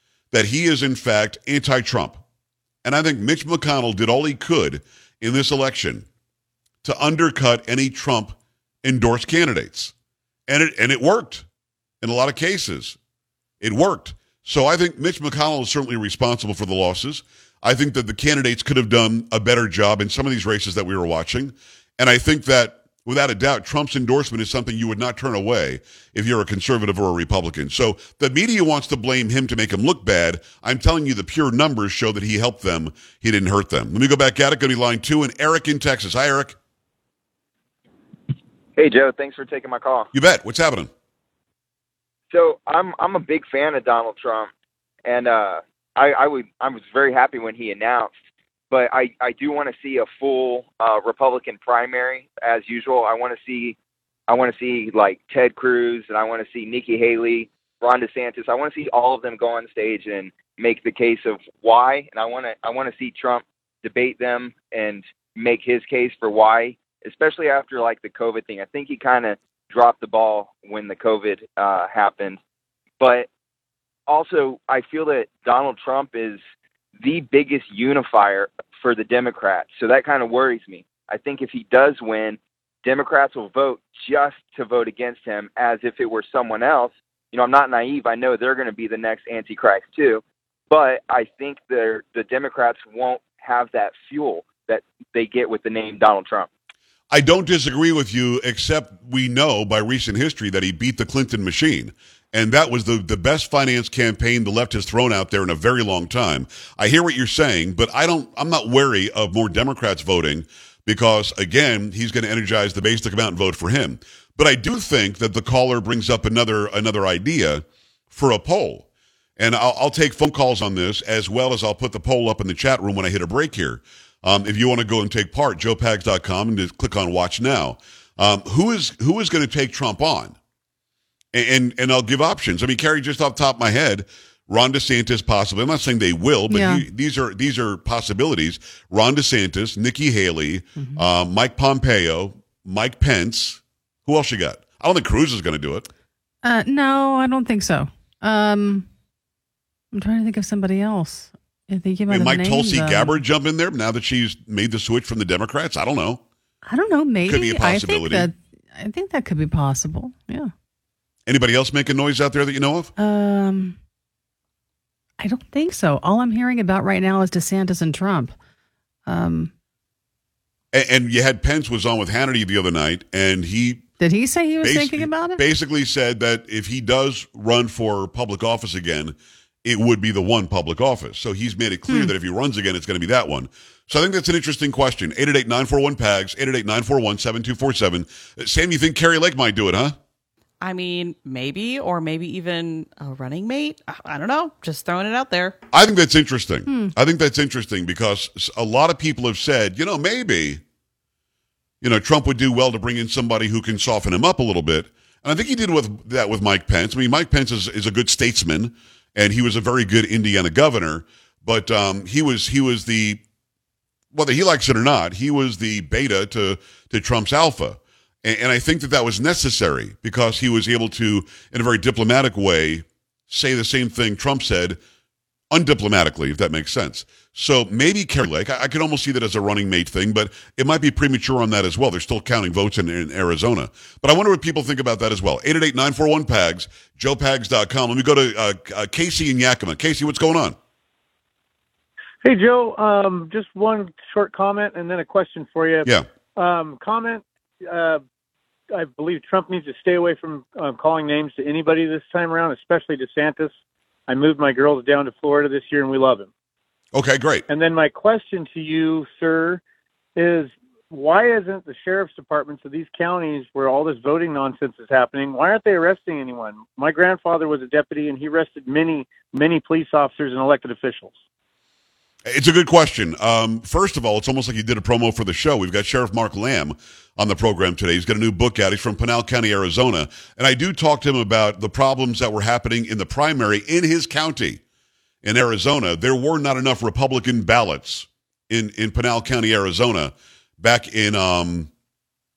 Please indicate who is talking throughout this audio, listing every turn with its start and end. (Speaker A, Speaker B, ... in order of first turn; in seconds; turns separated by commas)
Speaker A: 0.3-2.2, Speaker A: 2.8-6.1, Speaker A: 6.8-9.9, Speaker A: 10.5-11.4, Speaker A: 12.0-13.0, Speaker A: 13.6-36.5, Speaker B: 38.8-40.1, Speaker A: 40.1-40.9, Speaker B: 42.3-44.5, Speaker B: 45.0-48.1, Speaker B: 48.7-53.8, Speaker B: 54.3-72.4, Speaker B: 73.0-73.3, Speaker B: 74.1-76.4, Speaker B: 77.0-96.5, Speaker A: 97.1-118.8, Speaker A: 119.4-130.3, Speaker A: 131.3-145.8, Speaker C: 136.5-136.8, Speaker C: 140.8-141.0, Speaker C: 146.4-148.9, Speaker C: 149.9-153.2, Speaker A: 152.1-156.2, Speaker C: 156.7-160.5, Speaker A: 157.2-158.3, Speaker A: 161.2-162.9, Speaker C: 163.0-163.8, Speaker C: 165.2-168.3, Speaker C: 169.1-169.5, Speaker A: 170.7-173.8, Speaker C: 174.0-175.4, Speaker A: 174.6-189.9, Speaker D: 190.6-195.6, Speaker A: 195.7-200.6, Speaker C: 196.7-196.9, Speaker A: 201.8-213.2, Speaker A: 214.1-224.8, Speaker A: 225.5-240.6, Speaker E: 242.2-248.0, Speaker E: 248.7-253.5, Speaker E: 254.1-256.3, Speaker A: 256.9-257.4, Speaker E: 257.5-259.6, Speaker E: 260.1-271.2, Speaker A: 272.2-284.6, Speaker A: 285.2-291.7